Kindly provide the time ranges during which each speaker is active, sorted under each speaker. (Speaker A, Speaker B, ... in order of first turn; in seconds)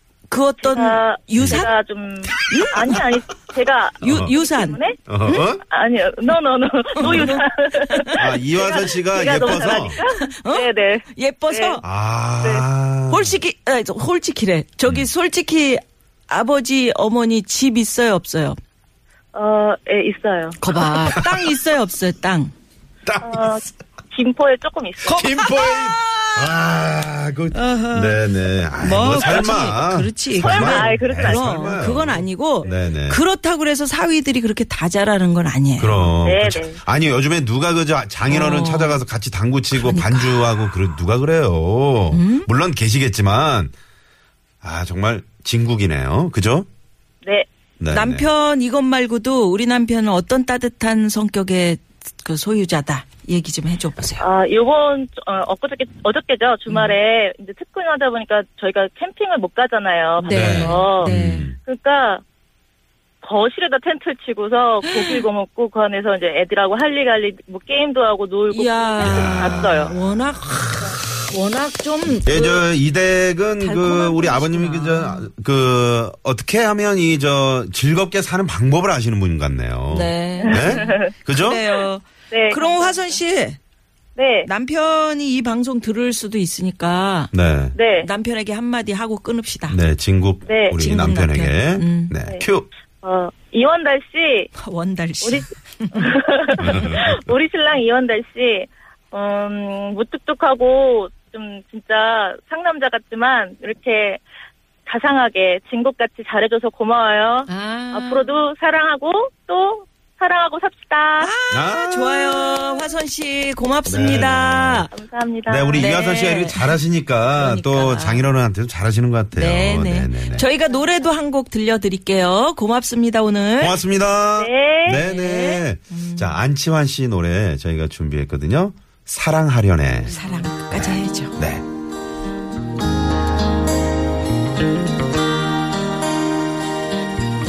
Speaker A: 0.3-1.7, 2.5-3.0, 4.0-5.5, 7.0-8.2, 10.1-11.8, 13.1-18.6, 20.6-22.5, 25.1-26.5, 27.5-28.2, 28.8-36.1, 38.3-39.0, 39.7-40.6, 42.1-42.5, 47.9-54.2, 56.7-57.0, 60.2-61.5, 64.8-65.2, 68.5-72.7, 73.6-75.3, 79.9-83.6, 84.4-87.3, 88.0-89.8, 90.7-92.1, 94.6-96.1, 107.5-108.3, 111.2-114.9, 115.7-116.8, 117.4-118.3, 119.3-123.8, 125.0-126.4, 130.1-131.3
Speaker B: 0.6-5.0, 5.7-11.8, 12.4-12.7, 19.3-20.6, 23.2-25.2, 30.4-32.8, 36.2-36.8, 54.2-61.1, 61.6-62.2, 63.2-70.0, 80.4-81.0, 82.3-83.2, 84.2-84.5, 87.7-88.1, 90.5-90.8, 93.0-94.5, 95.2-104.2, 104.9-111.3, 114.9-115.9, 124.4-125.0
Speaker C: 1.4-1.7, 4.0-4.3, 5.1-5.6, 8.2-10.0, 11.8-13.4, 21.1-21.4, 23.1-23.5, 25.1-33.2, 35.8-43.7, 44.6-46.7, 47.8-48.3, 60.3-61.6, 69.0-70.3, 72.2-81.7, 87.3-87.8, 89.7-92.7, 96.6-97.2, 111.5-112.8, 113.8-114.9, 115.5-120.5, 123.6-130.1, 130.7-131.6